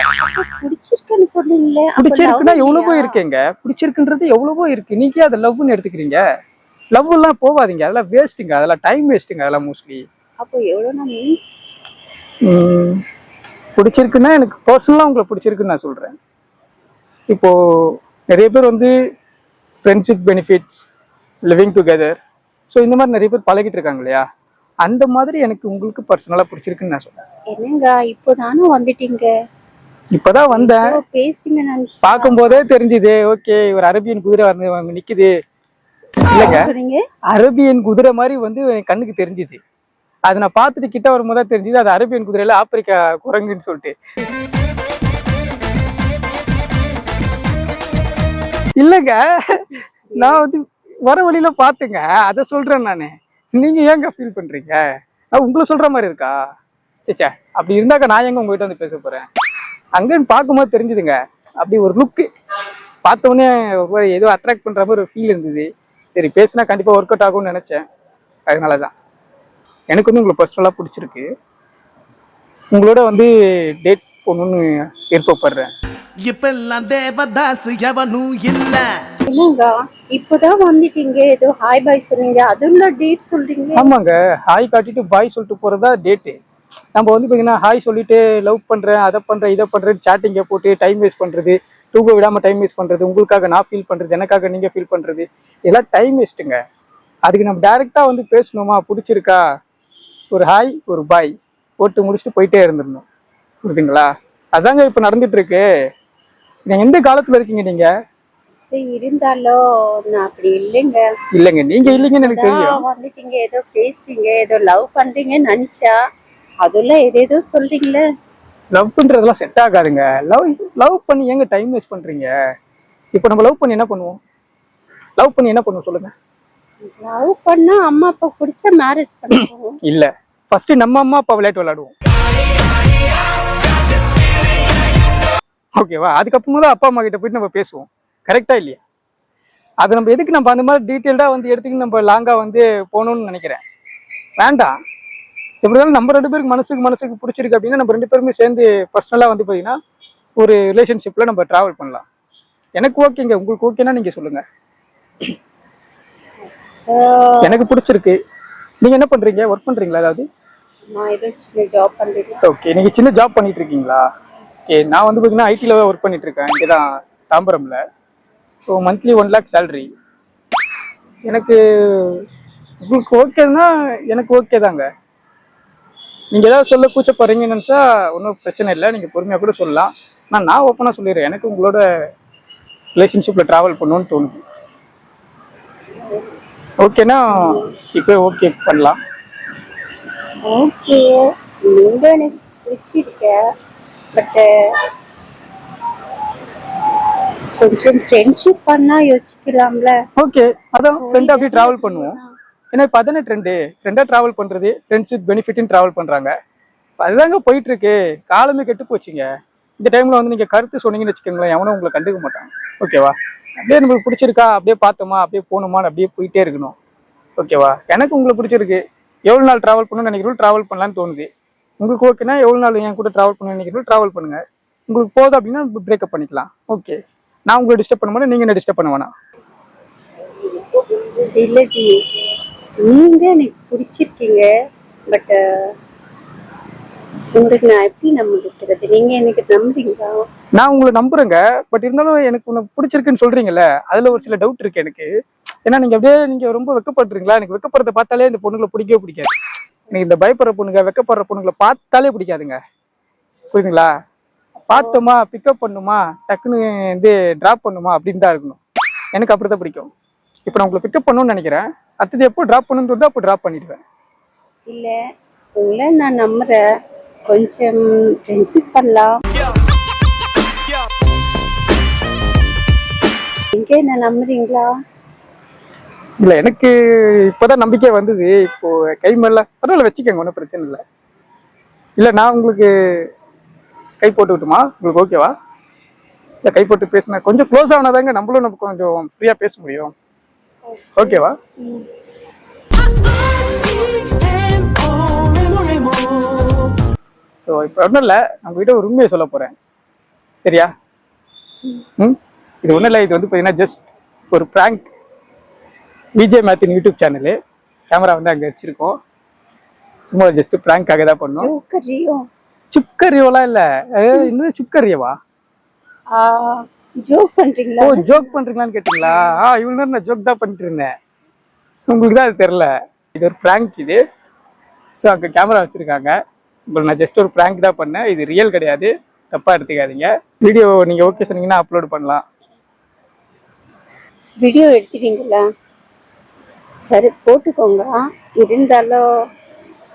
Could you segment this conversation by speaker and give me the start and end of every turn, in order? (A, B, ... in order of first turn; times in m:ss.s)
0:00.2-0:03.2 A
0:02.0-0:06.2 B
0:06.9-0:10.0 B
0:10.4-0:11.4 A
0:12.4-0:13.0 B
0:13.8-0:16.1 B
0:17.3-0:17.5 B
0:18.3-0:18.9 B
0:19.8-0:20.8 B
0:21.5-0:22.2 B
0:22.7-0:24.2 B
0:24.8-0:27.2 B
0:27.5-0:29.3 A
0:30.1-0:30.9 B
0:30.5-0:32.6 A
0:32.0-0:35.3 B
0:36.3-0:36.6 B
0:36.3-0:37.0 A
0:37.3-0:39.6 B
0:40.3-0:43.9 B
0:48.8-0:49.6 B
0:50.1-0:50.4 A
0:50.1-0:54.8 B
0:55.3-0:56.4 B
0:57.1-0:59.3 B
1:00.0-1:02.3 B
1:03.0-1:07.8 B
1:08.5-1:08.9 B
1:09.9-1:11.3 B
1:12.7-1:13.3 B
1:13.8-1:15.7 B
1:16.3-1:18.8 C
1:19.2-1:23.9 A
1:23.8-1:26.4 B
1:27.0-1:36.6 B
1:37.3-1:39.4 B
1:40.3-1:43.0 B
1:43.6-1:45.6 B
1:46.7-1:47.9 B
1:48.7-1:51.0 A
1:51.3-1:52.8 B
1:51.9-1:56.0 A
1:56.6-1:58.0 A
1:58.7-2:02.3 B
2:03.2-2:04.2 B
2:05.2-2:06.1 B
2:06.8-2:09.7 A
2:09.8-2:11.9 B
2:15.8-2:18.8 B
2:19.8-2:23.6 B
2:24.4-2:24.7 B
2:25.6-2:29.7 B
2:30.4-2:32.0 B
2:32.8-2:34.4 B
2:36.8-2:37.5 A
2:37.4-2:38.2 B
2:38.8-2:40.2 B
2:40.9-2:42.4 A
2:42.4-2:44.0 B
2:44.7-2:47.8 B
2:48.7-2:49.9 B
2:51.3-2:52.2 B
2:52.8-2:54.9 B
2:56.3-3:01.8 B
3:03.0-3:04.4 B
3:06.8-3:09.0 B
3:07.4-3:07.6 A
3:10.4-3:13.4 A
3:14.1-3:14.4 A
3:17.6-3:19.9 A
3:20.2-3:22.2 B
3:21.0-3:22.3 A
3:22.7-3:26.3 B
3:27.0-3:29.3 B
3:29.8-3:36.8 B
3:37.4-3:41.3 B
3:41.8-3:47.0 B
3:47.5-3:49.1 B
3:50.5-3:51.9 A
3:52.8-3:54.5 A
3:55.1-3:55.7 A
3:57.4-4:00.1 A
4:00.6-4:05.1 B
4:05.7-4:09.3 B
4:09.9-4:12.6 B
4:13.5-4:13.9 B
4:14.6-4:18.6 B
4:19.1-4:19.9 B
4:20.4-4:23.8 B
4:24.7-4:24.9 A
4:25.6-4:26.6 A
4:27.3-4:29.1 A
4:33.5-4:34.7 A
4:36.2-4:40.8 B
4:42.0-4:42.7 B
4:44.0-4:45.3 B
4:46.5-4:49.9 B
4:50.6-4:51.8 A
4:51.0-4:51.4 B
4:54.2-4:56.2 C
4:57.5-4:59.5 B
5:00.4-5:00.7 B
5:02.0-5:04.8 B
5:06.2-5:07.3 B
5:07.9-5:08.9 B
5:10.1-5:11.5 B
5:11.4-5:12.2 A
5:12.7-5:15.1 B
5:16.1-5:18.3 A
5:17.8-5:20.9 B
5:21.9-5:24.0 B
5:25.0-5:26.1 B
5:26.7-5:32.2 B
5:34.4-5:35.4 A
5:36.8-5:39.0 A